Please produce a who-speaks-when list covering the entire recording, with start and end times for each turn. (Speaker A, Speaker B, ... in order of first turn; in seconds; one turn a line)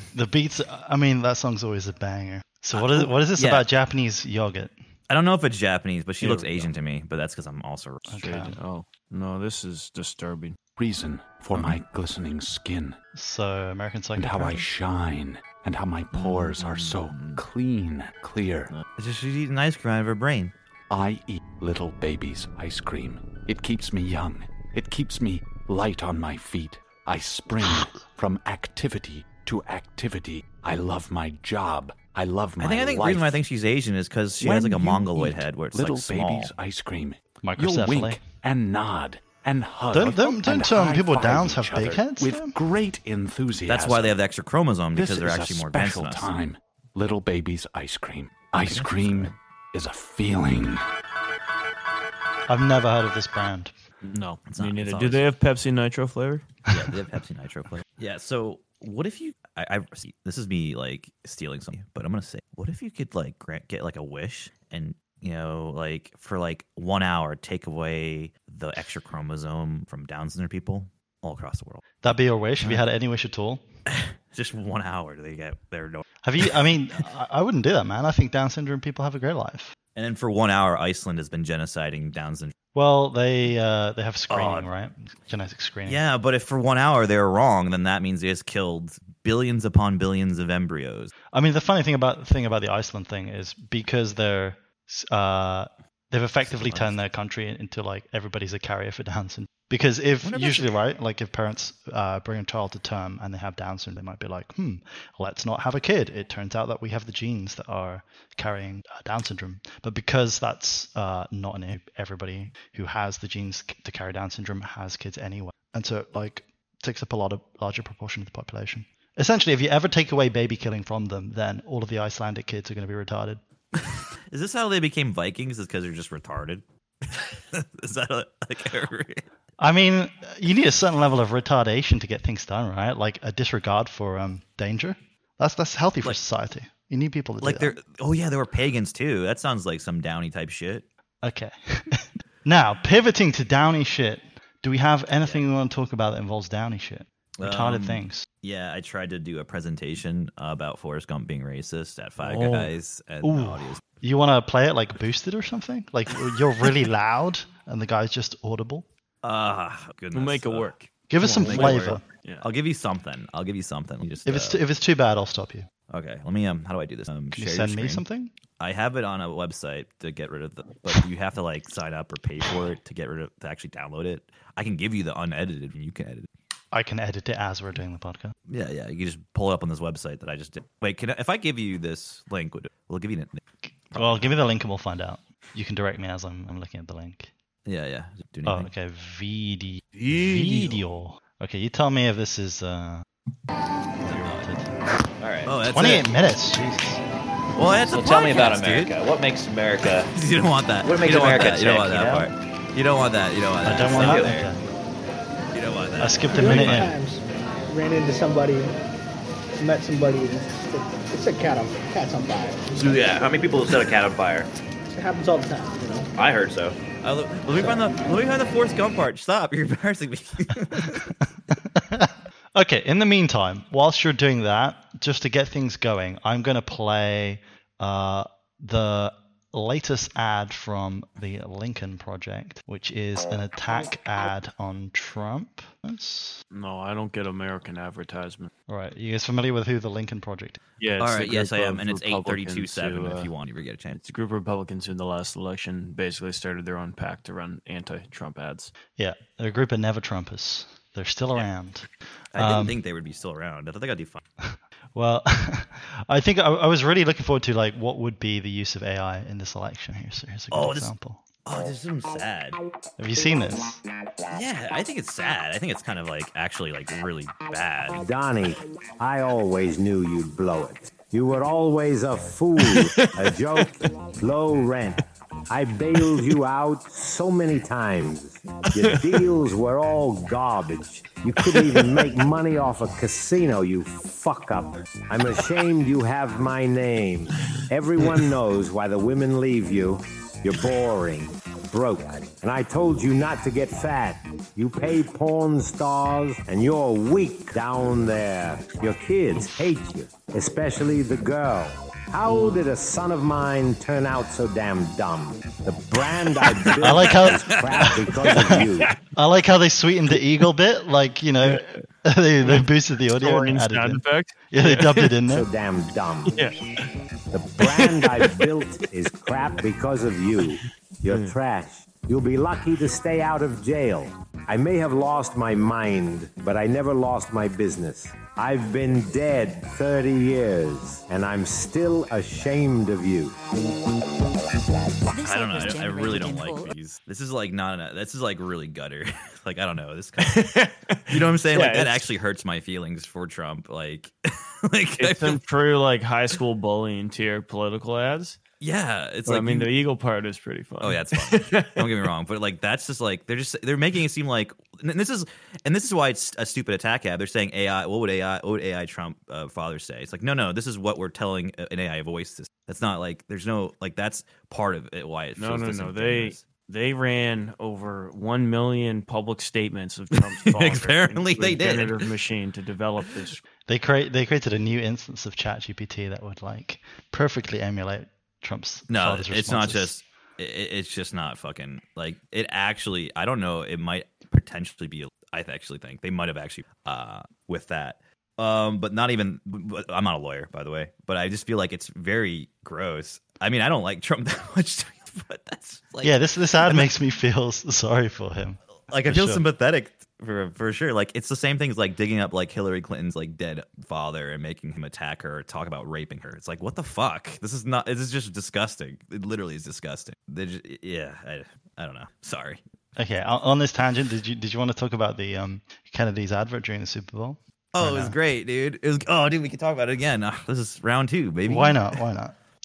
Speaker A: 0.1-4.7
Speaker B: 2.7-3.6
Speaker B: 5.1-8.1
Speaker C: 6.2-6.7
Speaker A: 8.1-8.6
Speaker C: 8.2-10.6
Speaker D: 10.8-13.0
Speaker A: 13.1-14.7
Speaker D: 14.2-18.7
Speaker B: 16.1-17.4
Speaker B: 19.0-20.5
Speaker D: 20.9-33.4
Speaker B: 32.6-36.5
Speaker D: 34.4-44.2
Speaker A: 37.4-38.2
Speaker A: 39.9-42.5
Speaker B: 43.7-46.3
Speaker D: 45.0-50.8
Speaker B: 48.7-49.3
Speaker A: 52.5-53.7
Speaker C: 54.0-56.5
Speaker B: 54.5-55.2
Speaker B: 56.7-71.8
Speaker A: 72.0-73.6
Speaker B: 73.9-76.0
Speaker A: 76.2-79.8
Speaker B: 80.0-82.5
Speaker A: 82.8-86.0
Speaker B: 84.3-84.7
Speaker B: 85.8-91.1
Speaker A: 91.3-123.4
Speaker B: 96.5-97.0
Speaker B: 100.2-100.7
Speaker B: 124.3-129.2
Speaker A: 129.6-137.8
Speaker B: 137.4-140.9
Speaker A: 141.2-148.3
Speaker B: 147.4-153.8
Speaker C: 152.2-152.7
Speaker A: 153.2-158.9
Speaker B: 159.2-160.7
Speaker C: 160.1-162.5
Speaker A: 161.1-162.0
Speaker B: 161.4-164.6
Speaker A: 164.2-165.7
Speaker B: 165.9-168.0
Speaker A: 167.3-168.3
Speaker B: 168.6-176.3
Speaker A: 176.7-178.3
Speaker B: 178.5-184.3
Speaker A: 183.9-187.3
Speaker B: 187.7-188.7
Speaker A: 188.5-193.1
Speaker C: 190.0-190.8
Speaker A: 194.0-194.8
Speaker B: 194.1-194.4
Speaker E: 195.2-195.5
Speaker B: 195.5-196.1
Speaker A: 195.7-197.0
Speaker B: 197.6-198.9
Speaker E: 197.9-200.2
Speaker B: 200.1-204.5
Speaker E: 200.8-202.3
Speaker A: 203.6-204.6
Speaker E: 203.9-204.4
Speaker B: 205.5-206.9
Speaker A: 206.0-206.9
Speaker F: 206.3-208.8
Speaker F: 209.6-212.9
Speaker E: 212.7-214.5
Speaker F: 214.9-216.1
Speaker E: 216.2-216.8
Speaker B: 217.0-221.0
Speaker A: 220.7-236.4
Speaker C: 236.5-238.5
Speaker A: 238.7-240.6
Speaker C: 240.8-243.3
Speaker B: 241.0-244.0
Speaker C: 243.9-248.7
Speaker A: 249.0-252.8
Speaker B: 252.3-254.2
Speaker A: 254.4-261.2
Speaker B: 260.5-260.9
Speaker B: 261.5-262.6
Speaker A: 263.0-263.8
Speaker B: 264.3-268.0
Speaker G: 268.0-308.9
Speaker C: 272.6-273.6
Speaker C: 278.7-279.2
Speaker C: 281.4-282.1
Speaker C: 306.4-306.7
Speaker A: 306.8-308.3
Speaker C: 308.2-308.9
Speaker A: 309.1-315.5
Speaker C: 311.4-311.8
Speaker C: 312.4-315.2
Speaker G: 315.3-316.4
Speaker C: 316.3-316.6
Speaker G: 317.3-333.4
Speaker C: 317.6-318.5
Speaker C: 321.1-321.4
Speaker B: 335.2-340.5
Speaker C: 340.2-342.1
Speaker B: 341.1-345.4
Speaker C: 345.0-348.4
Speaker B: 348.6-349.7
Speaker C: 349.3-351.9
Speaker B: 350.8-366.4
Speaker C: 365.4-373.4
Speaker B: 370.5-372.0
Speaker A: 373.7-380.0
Speaker B: 378.9-396.9
Speaker A: 396.0-399.4
Speaker B: 398.9-412.6
Speaker A: 413.0-418.2
Speaker B: 417.7-422.0
Speaker A: 421.4-422.4